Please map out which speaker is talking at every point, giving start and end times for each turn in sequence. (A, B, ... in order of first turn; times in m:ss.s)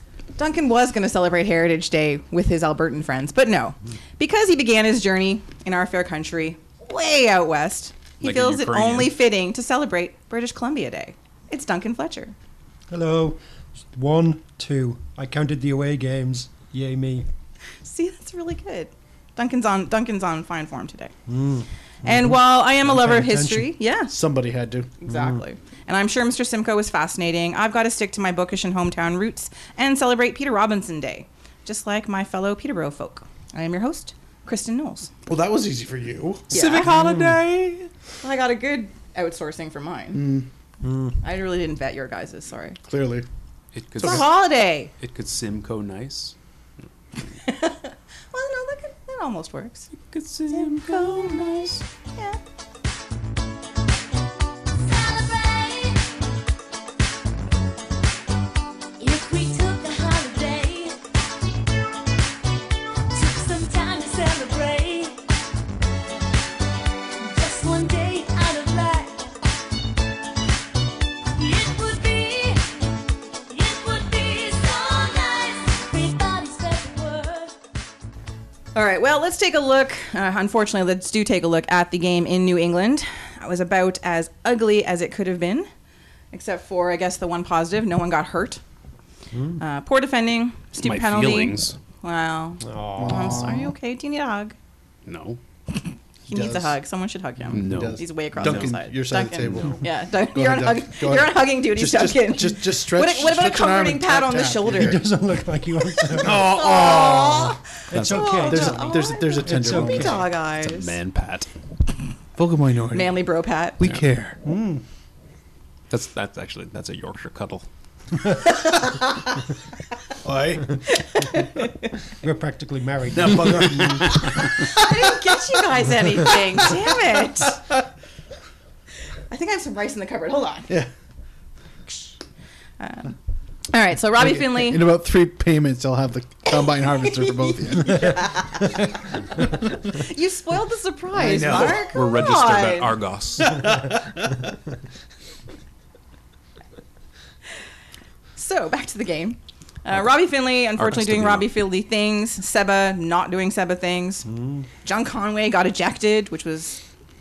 0:00.4-0:12.3 A
0:08.2-0:09.1 B
0:12.9-0:13.4 C
0:13.9-0:17.3 C
0:17.8-0:21.1 A
0:21.3-0:23.7 C
0:22.0-0:24.1 A
0:24.1-0:24.9 D
0:25.0-0:35.1 A
0:25.1-0:25.4 C
0:35.3-0:36.5 D
0:36.5-0:36.9 A
0:36.5-0:37.9 B
0:36.9-0:37.4 C
0:38.2-0:40.2 A
0:40.1-0:40.5 D
0:40.8-0:41.2 C
0:41.2-0:42.8 A
0:42.8-0:43.2 D
0:43.8-0:44.3 B
0:44.0-0:44.9 A
0:45.0-0:46.3 B
0:47.3-0:49.9 A
0:50.1-0:51.8 B
0:50.5-0:52.4 A
0:54.8-0:56.1 E
0:59.0-1:01.0 E
1:03.1-1:05.2 E
1:07.2-1:09.3 E
1:11.3-1:12.8 E
1:13.5-1:17.6 E
1:18.7-1:25.7 A
1:26.3-1:28.6 A
1:29.3-1:29.6 C
1:29.6-1:34.5 A
1:30.8-1:31.8 B
1:32.6-1:33.6 C
1:33.0-1:33.7 D
1:35.0-1:35.4 B
1:35.7-1:45.0 A
1:36.3-1:36.8 D
1:37.5-1:45.0 D
1:37.5-1:38.7 B
1:44.7-1:46.6 C
1:45.8-1:51.0 A
1:46.2-1:47.6 D
1:47.9-1:50.2 C
1:47.9-1:48.4 B
1:48.4-1:50.3 D
1:50.6-1:51.5 B
1:52.4-1:53.2 D
1:52.9-1:53.8 A
1:53.8-1:54.4 D
1:54.4-1:54.8 C
1:55.9-1:57.6 B
2:00.2-2:00.8 D
2:00.9-2:01.9 A
2:02.2-2:04.2 C
2:03.1-2:05.4 D
2:04.7-2:07.6 A
2:06.2-2:07.8 D
2:09.3-2:10.7 A
2:12.8-2:13.1 A
2:13.7-2:14.9 A
2:14.2-2:19.9 D
2:17.1-2:18.8 A
2:19.9-2:22.9 A
2:21.2-2:22.0 D
2:21.5-2:23.8 B
2:23.4-2:24.5 D
2:28.4-2:34.3 A
2:30.8-2:31.5 B
2:34.2-2:34.7 C
2:34.8-2:36.8 A